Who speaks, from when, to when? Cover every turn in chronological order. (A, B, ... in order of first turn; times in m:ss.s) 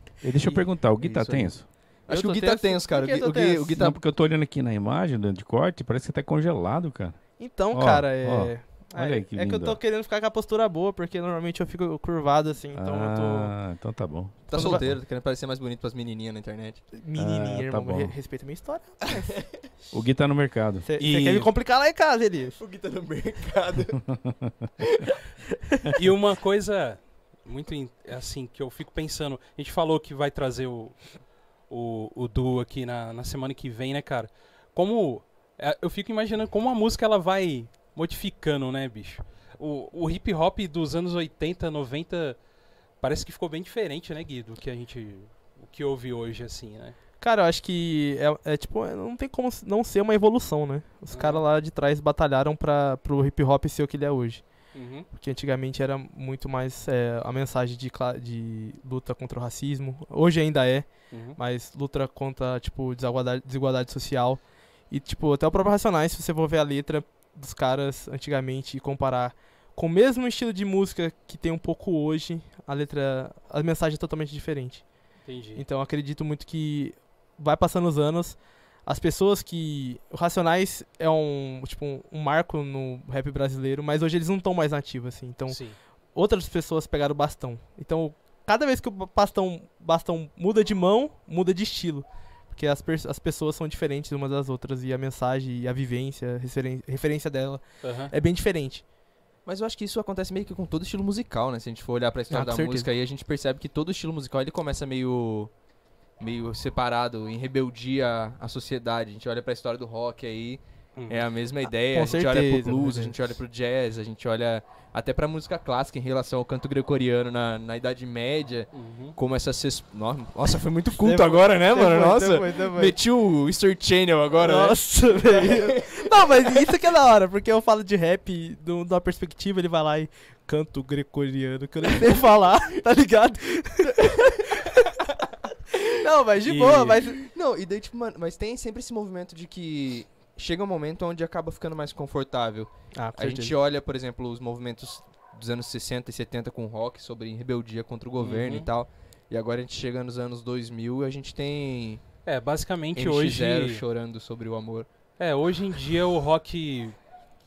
0:00.2-0:01.7 A
0:01.0-0:04.0 B
0:02.1-0:03.8 C
0:03.8-0:09.8 A
0:07.4-0:13.5 C
0:12.7-0:14.4 A
0:14.5-0:16.8 B
0:14.5-0:14.8 C
0:16.9-0:19.5 C
0:17.2-0:18.2 A
0:19.9-0:20.8 A
0:20.8-0:22.6 C
0:21.0-0:21.5 D
0:22.6-0:24.0 B
0:24.1-0:24.5 A
0:26.0-0:42.4 D
0:43.0-0:47.0 D
0:47.2-0:54.4 C
0:51.1-0:51.4 D
0:54.7-0:55.1 D
0:55.1-1:14.8 C
1:01.1-1:01.4 D
1:15.2-1:15.6 D
1:15.5-1:25.6 C
1:25.5-1:25.8 D
1:26.1-1:38.8 C
1:37.8-1:38.1 D
1:39.4-1:45.5 B
1:42.3-1:42.9 C
1:46.2-2:06.7 B
1:51.0-1:51.2 D
1:51.9-1:53.1 C
1:58.7-1:59.2 D
2:01.0-2:02.9 C
2:04.4-2:14.9 C
2:13.9-2:14.4 B
2:15.8-2:17.2 C
2:16.4-2:17.0 D
2:17.0-2:32.0 B
2:22.9-2:23.5 C
2:28.2-2:28.7 D
2:32.2-2:33.8 D
2:33.0-2:34.9 B
2:35.2-2:37.0 D